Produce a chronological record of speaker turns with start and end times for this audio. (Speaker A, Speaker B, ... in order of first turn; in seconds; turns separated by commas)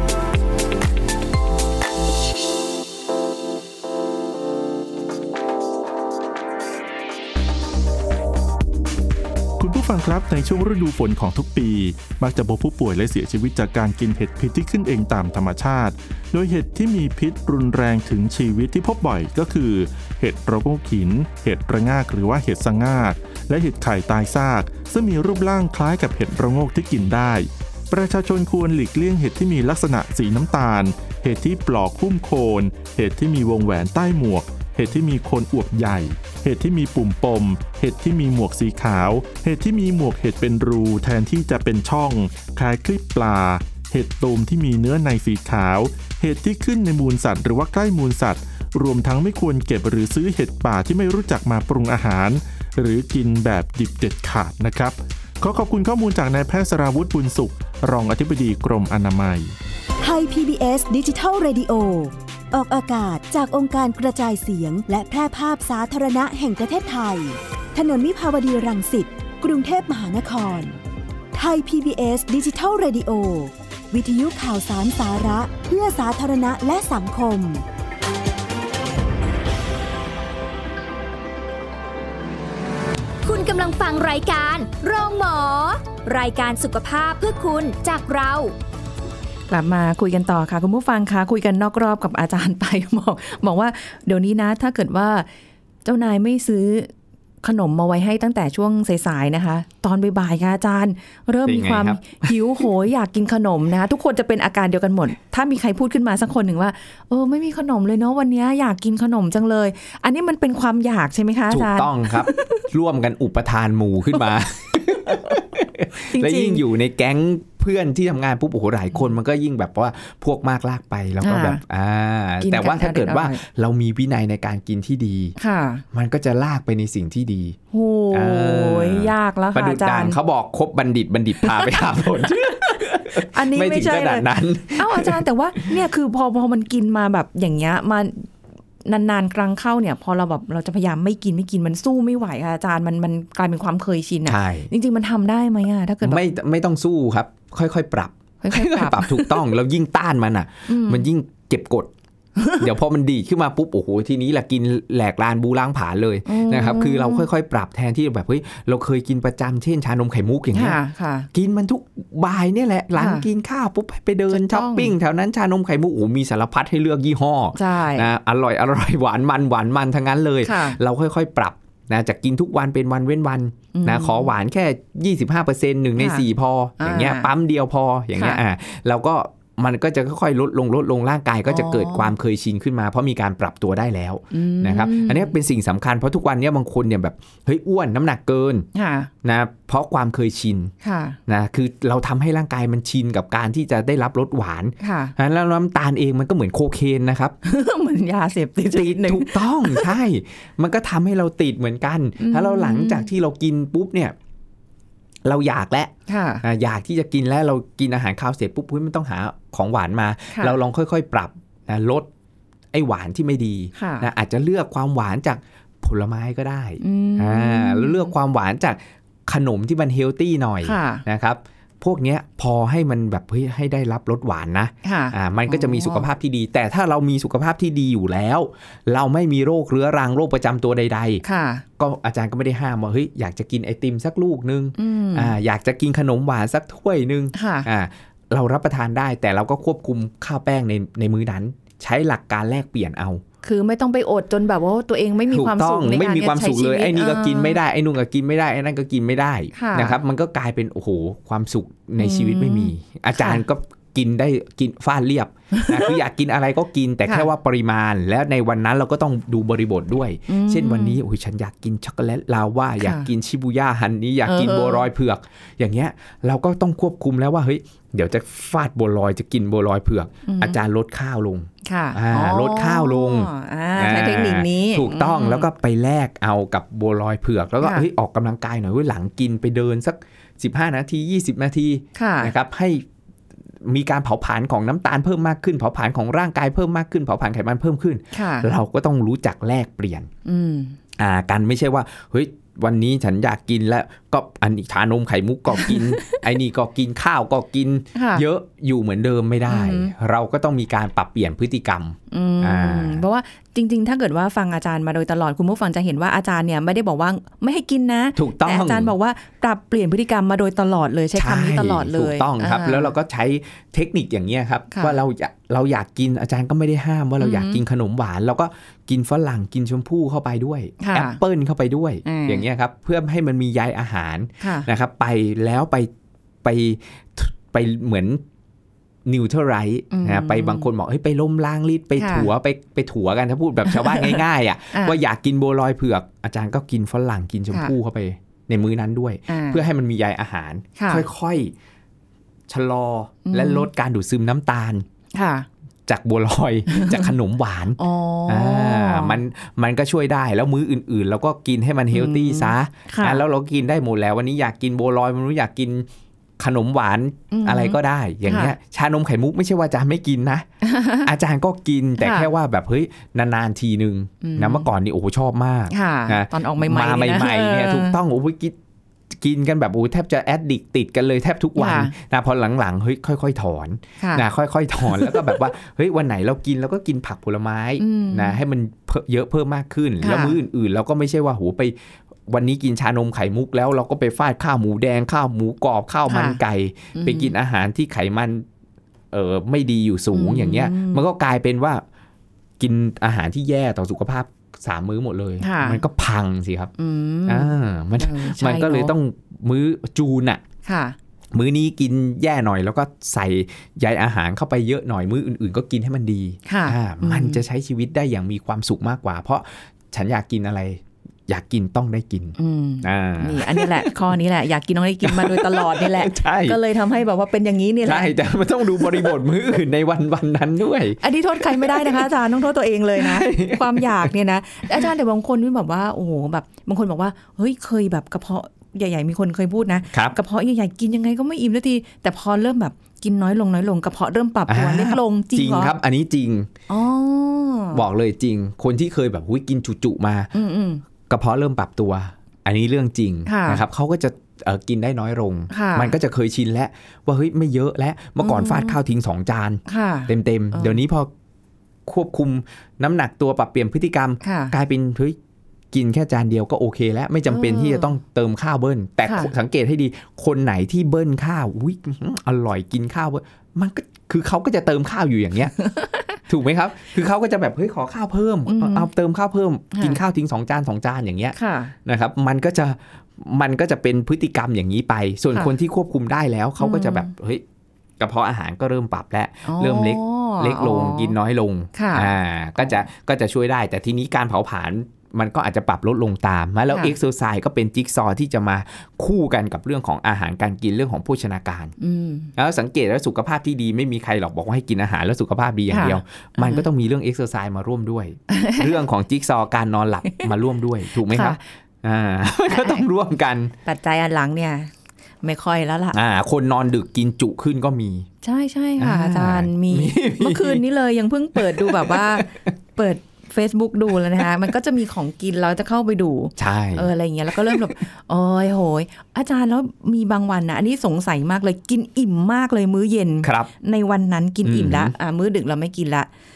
Speaker A: 9.6-59.5, Speaker B: 60.0-70.8, Speaker B: 71.3-77.6, Speaker C: 83.2-88.5, Speaker D: 89.5-95.3, Speaker D: 95.8-96.9, Speaker D: 97.4-112.6, Speaker E: 101.4-102.6, Speaker E: 111.5-125.3, Speaker D: 115.1-115.4, Speaker D: 116.0-116.6, Speaker D: 121.2-121.6, Speaker D: 122.4-123.4, Speaker D: 125.4-125.8, Speaker E: 125.9-127.6, Speaker D: 127.7-130.2, Speaker E: 128.1-135.8, Speaker D: 131.4-138.3, Speaker D: 138.8-146.2, Speaker E: 144.2-144.7, Speaker E: 146.0-151.9, Speaker D: 148.4-149.4, Speaker D: 150.7-151.1, Speaker D: 152.4-152.7, Speaker E: 152.6-160.8, Speaker D: 156.2-157.3, Speaker D: 160.5-161.3, Speaker E: 161.3-188.7, Speaker D: 162.9-163.2, Speaker D: 164.3-164.9, Speaker D: 167.5-168.1, Speaker D: 170.4-170.8, Speaker D: 173.7-174.3, Speaker D: 176.0-176.2, Speaker D: 176.8-177.3, Speaker D: 181.5-182.1, Speaker D: 184.3-185.3, Speaker D: 188.7-189.1, Speaker E: 189.2-190.7, Speaker D: 190.8-191.2, Speaker E: 191.3-197.3, Speaker D: 194.8-195.1, Speaker D: 197.4-199.9, Speaker E: 198.7-204.1, Speaker D: 202.2-203.1, Speaker E: 205.2-212.1, Speaker D: 206.1-206.4, Speaker E: 212.7-231.2, Speaker D: 213.8-214.1, Speaker D: 216.8-218.1, Speaker D: 220.6-221.0, Speaker D: 224.8-226.1, Speaker D: 231.2-231.6, Speaker E: 231.8-243.2, Speaker D: 234.8-235.3, Speaker D: 237.3-237.7, Speaker D: 243.4-247.6, Speaker E: 245.3-282.8, Speaker D: 249.5-250.0, Speaker D: 252.0-253.4, Speaker D: 255.5-255.9, Speaker D: 260.3-261.0, Speaker D: 262.8-263.1, Speaker D: 264.2-264.9, Speaker D: 270.2-270.6, Speaker D: 271.6-275.5, Speaker D: 277.6-277.9, Speaker D: 281.9-282.3, Speaker E: 283.6-290.1, Speaker D: 288.1-288.5, Speaker D: 290.2-290.8, Speaker E: 291.0-303.0, Speaker D: 295.5-296.2, Speaker D: 297.9-298.2, Speaker D: 299.5-299.9, Speaker D: 302.1-312.9, Speaker E: 308.1-308.9, Speaker E: 311.1-325.9, Speaker D: 314.7-315.0, Speaker D: 317.2-317.6, Speaker D: 320.8-321.2, Speaker D: 322.0-322.4, Speaker D: 324.4-324.7, Speaker E: 326.4-328.2, Speaker E: 329.0-341.5, Speaker D: 329.9-330.7, Speaker D: 332.0-332.3, Speaker D: 333.7-334.2, Speaker D: 334.7-335.0, Speaker D: 339.3-339.6, Speaker D: 340.8-341.0, Speaker E: 342.5-344.8, Speaker D: 343.2-343.7, Speaker D: 345.1-345.5, Speaker E: 345.9-355.9, Speaker D: 346.7-347.1, Speaker D: 347.8-349.2, Speaker D: 351.9-353.2, Speaker E: 356.4-360.5, Speaker D: 357.3-358.5, Speaker D: 360.6-361.1, Speaker E: 361.0-368.6, Speaker D: 362.0-362.3, Speaker D: 364.2-364.7, Speaker D: 365.7-368.0, Speaker E: 369.1-381.7, Speaker D: 371.6-371.9, Speaker D: 374.0-374.2, Speaker D: 374.9-375.2, Speaker D: 377.8-378.4, Speaker D: 380.0-380.4, Speaker E: 382.3-388.4, Speaker D: 386.1-386.4, Speaker D: 386.9-387.3, Speaker E: 389.1-391.8, Speaker D: 390.1-391.0, Speaker E: 392.6-396.7, Speaker D: 395.4-395.8, Speaker D: 396.8-398.9, Speaker E: 397.2-400.4, Speaker D: 400.6-400.9, Speaker E: 401.3-413.9, Speaker D: 406.5-407.4, Speaker D: 412.4-418.1, Speaker E: 415.0-416.6, Speaker E: 417.8-422.1, Speaker D: 421.0-435.7, Speaker E: 422.9-424.1, Speaker E: 429.9-430.2, Speaker E: 434.5-436.5, Speaker D: 436.7-437.8, Speaker E: 437.7-440.3, Speaker D: 440.3-440.8, Speaker E: 441.1-451.1, Speaker D: 443.2-443.6, Speaker D: 445.5-445.9, Speaker D: 448.2-448.8, Speaker D: 449.7-450.8, Speaker E: 451.9-455.2, Speaker D: 454.2-454.5, Speaker E: 455.7-465.6, Speaker D: 457.3-457.9, Speaker D: 459.1-459.3, Speaker D: 465.6-466.2, Speaker E: 466.3-477.4, Speaker D: 468.5-468.9, Speaker D: 469.7-470.0, Speaker D: 471.3-471.7, Speaker D: 476.6-477.1, Speaker E: 478.0-491.7, Speaker D: 479.4-481.1, Speaker D: 481.7-482.8, Speaker D: 491.8-492.3, Speaker E: 492.4-503.5, Speaker D: 495.7-496.6, Speaker D: 498.3-498.7, Speaker D: 501.1-501.4, Speaker D: 502.5-502.8, Speaker D: 503.6-504.7, Speaker D: 505.2-506.0, Speaker E: 505.9-508.1, Speaker D: 508.2-526.1, Speaker E: 508.8-510.6, Speaker E: 511.3-512.5, Speaker E: 516.4-517.7, Speaker E: 523.2-523.5, Speaker E: 524.4-524.9